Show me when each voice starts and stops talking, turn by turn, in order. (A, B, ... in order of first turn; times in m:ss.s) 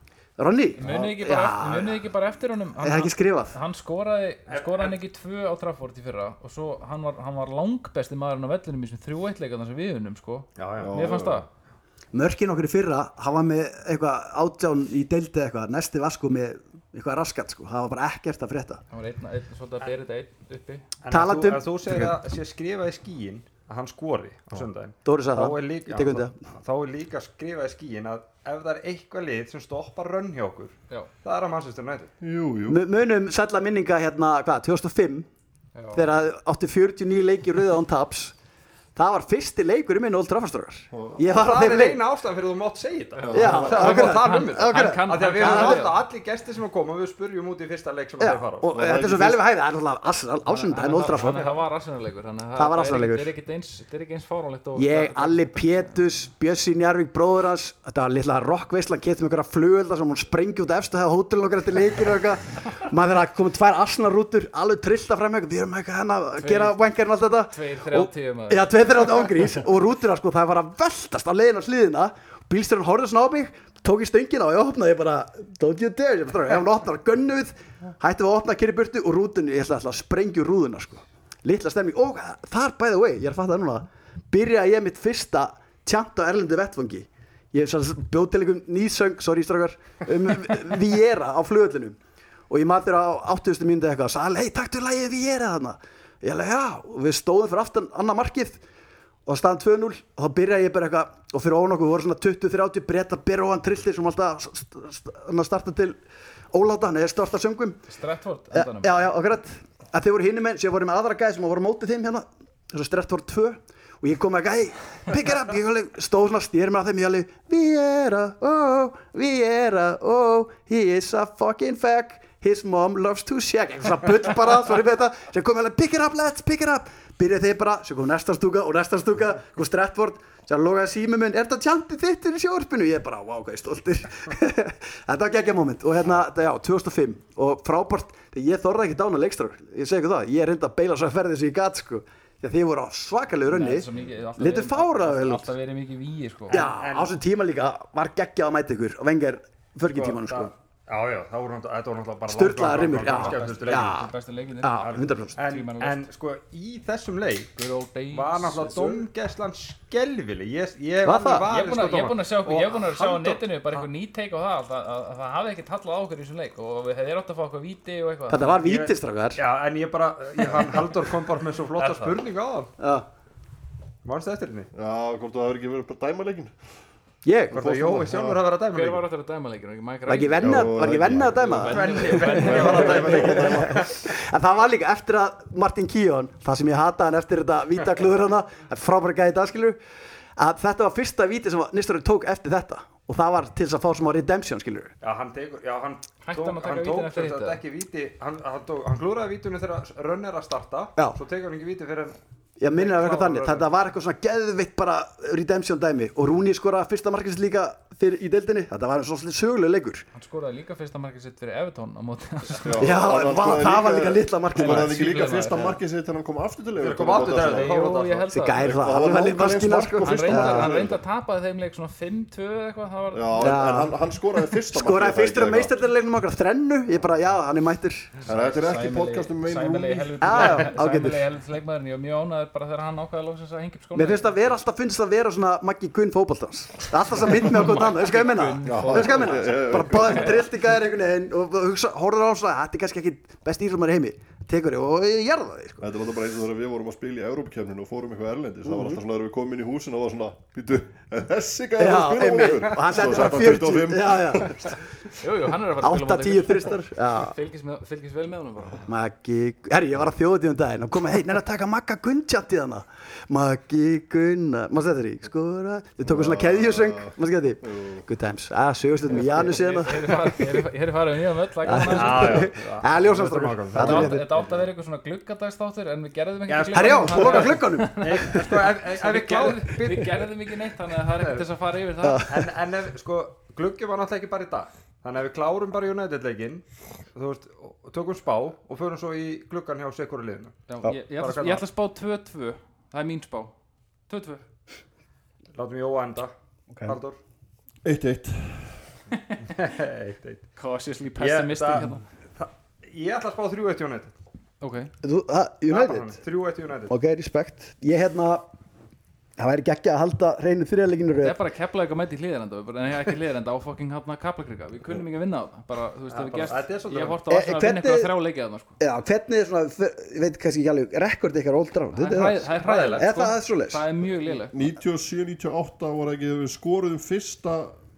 0:00.4-0:02.0 A
0:00.8-0:11.5 B
0:00.8-0:01.2 C
0:02.8-0:03.5 A
0:04.5-0:05.0 D
0:10.6-0:11.0 D
0:10.8-0:11.4 C
0:12.1-0:18.8 A
0:18.9-0:20.9 B
0:21.0-0:32.1 D
0:21.1-0:22.1 A
0:25.0-0:26.4 A
0:32.2-0:32.8 C
0:32.7-0:35.3 A
0:35.7-0:36.0 B
0:35.9-0:38.3 A
0:39.0-0:42.0 A
0:40.9-0:41.2 C
0:41.3-0:49.0 D
0:43.2-0:46.0 B
0:43.3-0:43.9 C
0:43.3-0:45.8 A
0:48.2-0:51.5 A
0:48.7-0:49.4 B
0:50.5-0:56.0 B
0:52.6-0:53.3 A
0:54.7-1:32.0 A
1:06.4-1:08.7 B
1:32.5-1:38.6 A
1:39.2-1:46.0 A
1:46.5-1:47.8 A
1:47.9-1:49.0 B
1:48.5-2:25.5 A
2:23.5-2:26.6 B
2:26.5-2:27.1 D
2:26.5-2:30.5 A
2:29.9-2:34.0 D
2:32.3-2:35.4 A
2:33.0-2:36.1 B
2:34.9-2:37.5 D
2:37.6-2:39.0 B
2:38.1-2:43.8 D
2:41.0-2:41.5 A
2:41.5-2:48.6 B
2:48.3-2:49.4 A
2:48.6-2:52.7 D
2:51.8-2:52.2 B
2:52.8-2:53.1 A
2:54.0-2:54.7 D
2:54.7-2:56.5 C
2:57.2-2:58.1 A
2:57.5-2:59.0 D
2:57.5-2:58.4 C
2:58.7-3:03.3 B
3:00.1-3:09.8 A
3:00.4-3:01.7 C
3:01.6-3:04.1 D
3:02.3-3:03.9 C
3:10.4-3:14.9 A
3:15.0-3:22.2 D
3:16.2-3:17.6 B
3:22.6-3:30.0 A
3:22.7-3:23.6 D
3:30.1-3:33.0 B
3:32.6-3:37.8 C
3:32.8-3:35.7 A
3:34.6-3:35.8 B
3:36.8-3:38.3 D
3:37.2-3:38.7 B
3:38.3-3:40.7 A
3:38.6-3:41.0 C
3:40.0-3:43.7 B
3:43.1-3:45.7 C
3:43.4-3:48.1 A
3:48.2-3:54.6 B
3:48.2-3:50.6 C
3:50.2-3:51.2 A
3:53.9-4:05.9 A
3:57.2-4:00.4 B
3:58.6-4:00.5 C
4:05.8-4:14.7 C
4:08.6-4:09.0 A
4:11.8-4:14.7 A
4:15.2-4:18.9 B
4:15.8-4:17.3 A
4:18.8-4:30.2 A
4:26.0-4:28.0 C
4:29.1-4:32.5 B
4:31.6-4:34.4 A
4:31.8-4:34.2 D
4:33.8-4:42.3 B
4:36.5-4:40.3 D
4:36.7-4:38.6 A
4:41.2-4:41.4 D
4:42.0-4:42.5 A
4:42.2-4:51.6 D
4:50.7-4:53.5 B
4:54.1-4:54.4 B
4:55.5-4:56.3 D
4:56.7-4:57.0 A
4:56.8-4:57.2 D
4:57.8-4:58.8 C
4:59.1-4:59.5 B
4:59.4-5:00.5 D
5:00.6-5:02.0 B
5:01.2-5:04.1 D
5:04.6-5:04.9 B
5:05.0-5:06.1 A
5:05.7-5:07.0 D
5:06.9-5:08.5 A
5:09.4-5:11.4 A
5:11.2-5:18.8 B
5:16.1-5:17.2 D
5:17.3-5:18.1 A
5:18.8-5:23.8 A
5:21.9-5:24.7 B
5:22.4-5:23.1 D
5:24.5-5:27.7 C